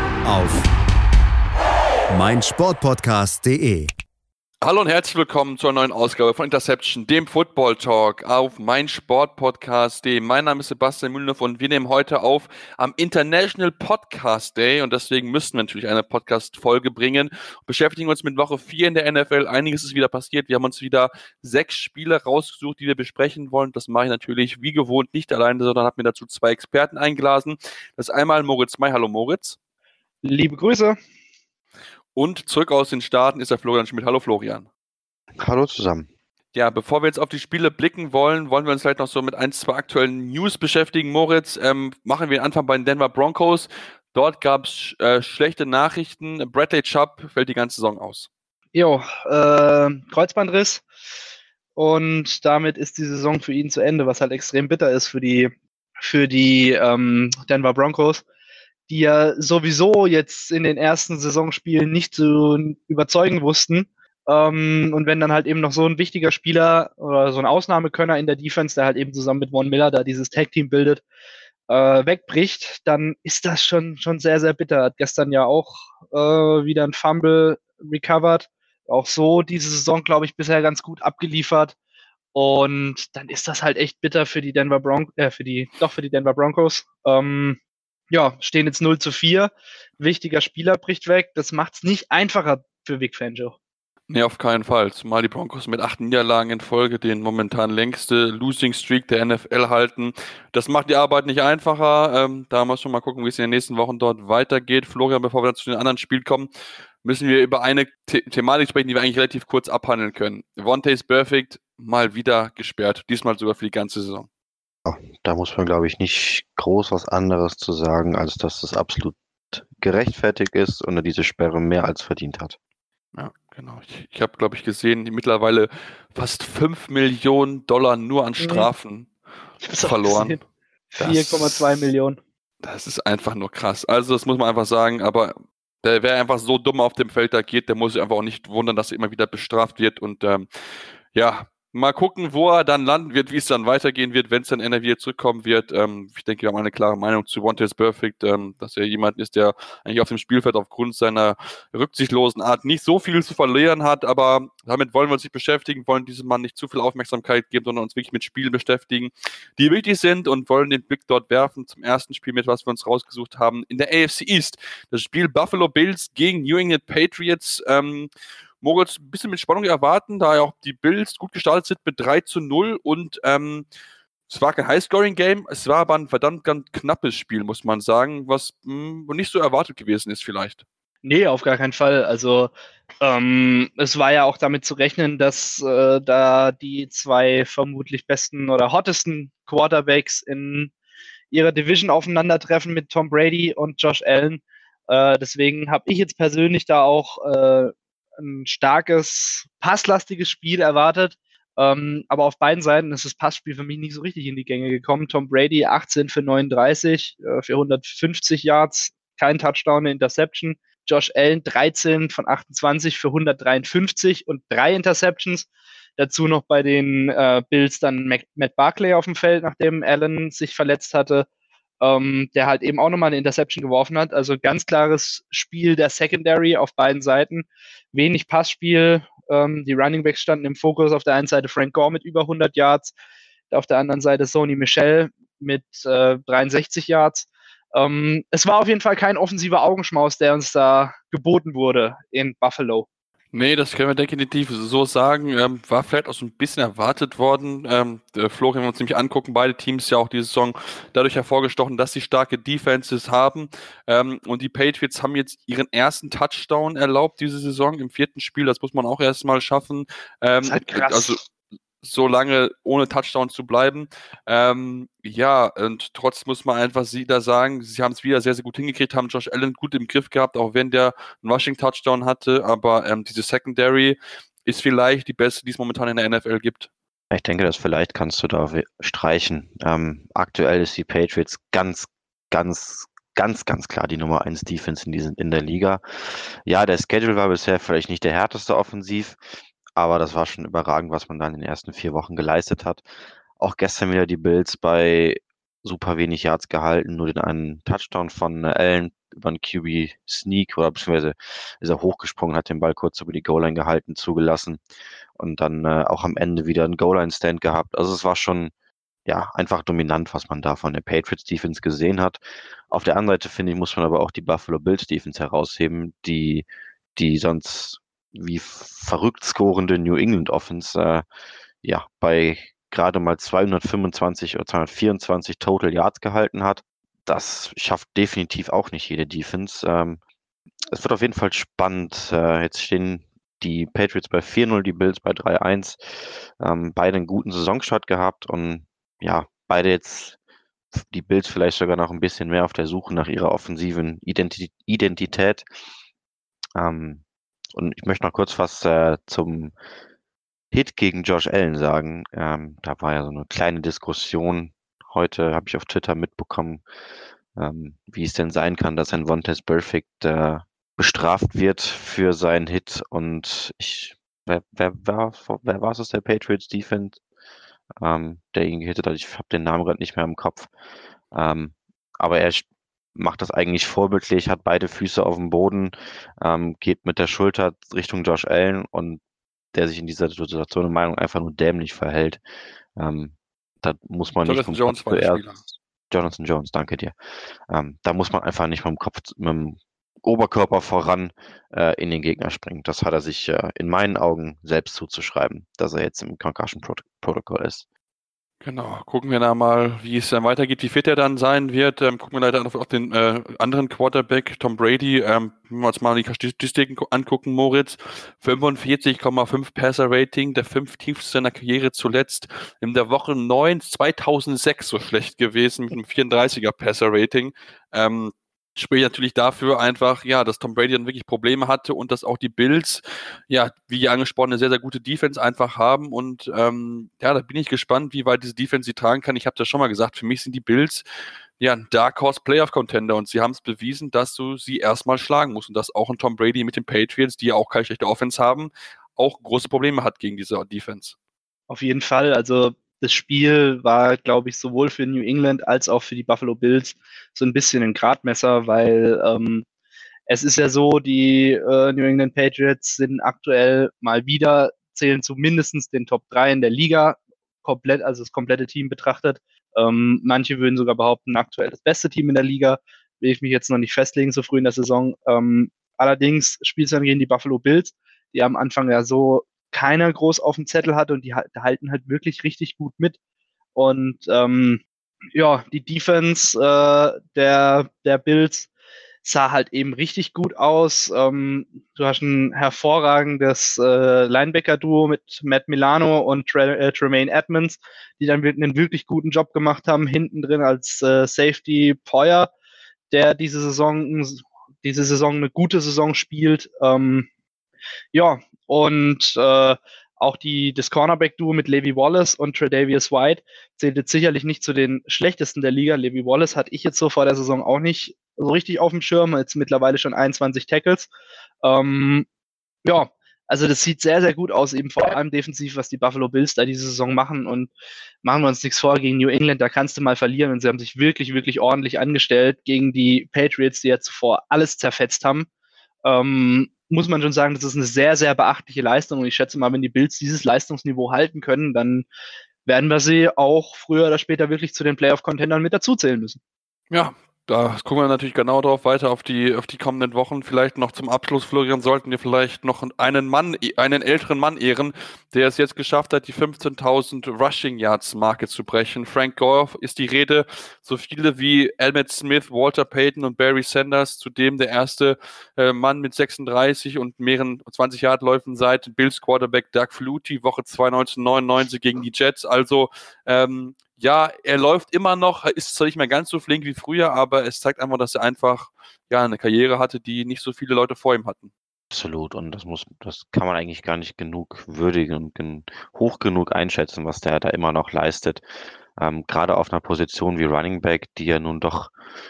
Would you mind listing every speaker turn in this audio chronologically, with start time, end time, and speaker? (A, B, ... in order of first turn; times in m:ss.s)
0:00.2-0:00.6 A
0:02.1-0:03.9 A
0:04.6-0:29.6 B
0:30.2-0:31.0 C
0:32.1-0:34.7 B
0:35.4-0:36.1 D
0:36.5-0:48.3 B
0:48.7-0:50.8 C
0:51.8-0:58.2 C
0:58.9-1:11.0 C
1:11.7-1:21.7 C
1:22.3-1:27.6 C
1:28.1-1:33.6 C
1:34.1-1:46.5 B
1:47.0-1:54.3 B
1:54.8-2:02.6 D
2:03.1-2:09.1 B
2:08.4-2:08.7 C
2:09.6-2:10.4 C
2:09.8-2:10.4 B
2:10.9-2:12.2 C
2:11.0-2:11.9 B
2:12.6-2:20.5 B
2:21.1-2:48.1 B
2:48.6-2:53.6 B
2:54.3-3:00.6 B
3:01.0-3:10.7 C
3:11.3-3:41.2 C
3:41.8-3:52.9 C
3:53.5-4:02.8 C
4:03.3-4:21.2 B
4:20.4-4:21.2 C
4:21.8-4:36.7 B
4:37.1-4:45.8 D
4:46.4-4:49.2 D
4:49.8-4:52.8 D
4:53.4-5:04.6 D
5:05.2-5:08.5 D
5:09.0-5:21.0 D
5:21.6-5:30.0 D
5:30.7-5:35.8 D
5:36.4-5:40.2 D
5:40.7-5:45.5 D
5:46.5-5:49.5 D
5:50.5-5:56.6 D
5:57.4-6:07.0 D
6:07.8-6:10.5 D
6:11.1-6:19.0 D
6:19.5-6:22.2 D
6:22.8-6:25.4 D
6:24.2-6:25.4 B
6:25.9-6:26.9 D
6:27.5-6:37.6 D
6:38.4-7:10.8 B
7:11.4-7:21.0 B
7:21.5-7:29.4 C
7:30.1-7:53.0 C
7:53.6-7:54.6 C
7:55.1-7:58.5 C
7:59.0-8:12.3 C
8:12.9-8:17.1 C
8:17.9-8:30.9 C
8:31.4-8:32.0 C
8:32.6-8:37.5 C
8:38.0-8:45.3 C
8:45.8-8:51.9 C
8:52.4-8:56.2 C
8:56.7-9:31.3 B
9:31.7-9:38.2 D
9:38.8-9:41.7 D